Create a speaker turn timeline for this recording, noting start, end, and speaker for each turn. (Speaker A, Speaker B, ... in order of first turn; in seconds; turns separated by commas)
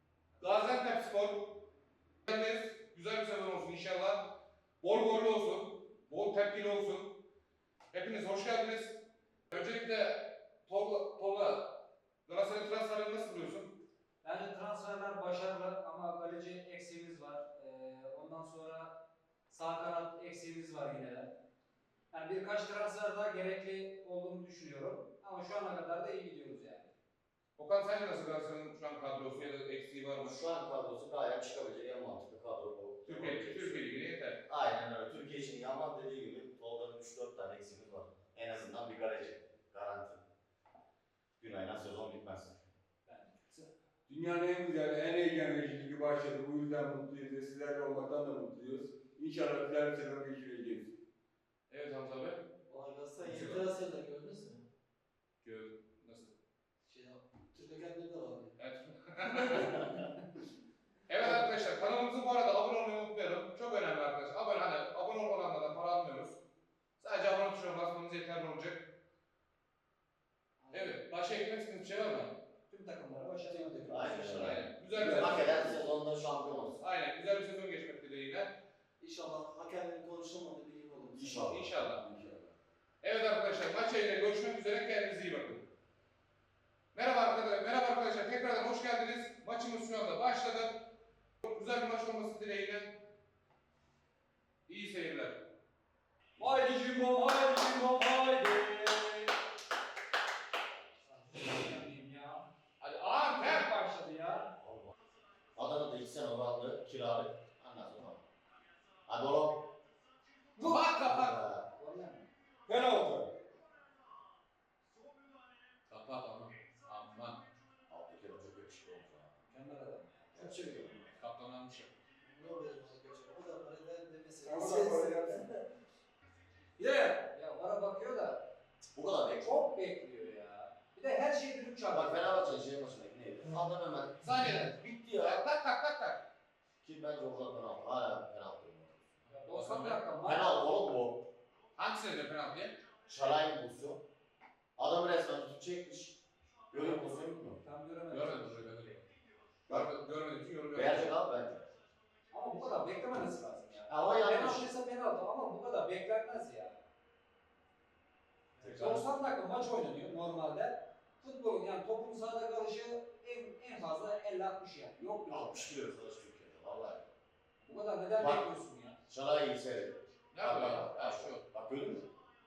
Speaker A: 0.4-1.7, Speaker A: 2.3-7.2, Speaker A: 7.9-13.8, Speaker B: 14.2-19.0, Speaker B: 19.5-21.3, Speaker B: 22.1-26.9, Speaker A: 27.6-30.4, Speaker C: 30.2-33.9, Speaker A: 33.0-34.4, Speaker C: 34.5-40.2, Speaker C: 41.4-42.6, Speaker B: 43.1-43.7, Speaker D: 44.1-50.9, Speaker A: 51.7-52.4, Speaker E: 52.7-54.6, Speaker A: 53.2-53.7, Speaker A: 55.4-56.3, Speaker E: 56.9-58.5, Speaker A: 58.6-60.0, Speaker A: 61.1-66.4, Speaker A: 67.0-68.9, Speaker E: 70.6-71.0, Speaker A: 70.7-72.4, Speaker B: 72.7-74.6, Speaker C: 73.9-76.8, Speaker A: 74.2-75.7, Speaker D: 74.9-75.8, Speaker A: 76.8-78.6, Speaker E: 79.0-81.4, Speaker D: 81.2-82.5, Speaker C: 81.2-81.7, Speaker A: 81.4-82.0, Speaker A: 83.0-85.7, Speaker A: 86.9-93.0, Speaker A: 94.7-95.5, Speaker B: 96.4-99.3, Speaker B: 101.0-102.5, Speaker A: 102.8-103.7, Speaker B: 103.3-104.5, Speaker C: 104.6-104.9, Speaker C: 105.6-108.2, Speaker C: 109.1-109.7, Speaker B: 110.6-110.9, Speaker A: 110.6-111.4, Speaker C: 111.0-111.7, Speaker B: 111.7-112.2, Speaker D: 112.7-113.3, Speaker A: 115.9-117.4, Speaker C: 117.9-119.3, Speaker B: 119.5-121.0, Speaker C: 120.3-120.9, Speaker A: 121.2-121.9, Speaker E: 122.2-125.6, Speaker D: 124.5-125.4, Speaker B: 126.8-128.4, Speaker C: 128.9-129.6, Speaker B: 129.3-132.5, Speaker C: 131.9-135.4, Speaker A: 134.2-136.2, Speaker C: 136.8-139.3, Speaker B: 139.3-140.5, Speaker A: 139.5-140.0, Speaker C: 140.2-141.2, Speaker A: 141.8-142.8, Speaker C: 143.1-144.0, Speaker C: 144.8-146.2, Speaker C: 146.7-147.6, Speaker B: 146.7-148.8, Speaker A: 148.1-149.1, Speaker A: 149.7-151.1, Speaker C: 150.7-151.6, Speaker B: 152.3-156.8, Speaker C: 153.9-154.7, Speaker C: 158.6-159.1, Speaker B: 158.7-165.7, Speaker C: 165.3-167.1, Speaker B: 167.6-169.0, Speaker C: 168.2-168.4, Speaker C: 169.1-172.1, Speaker A: 170.3-171.4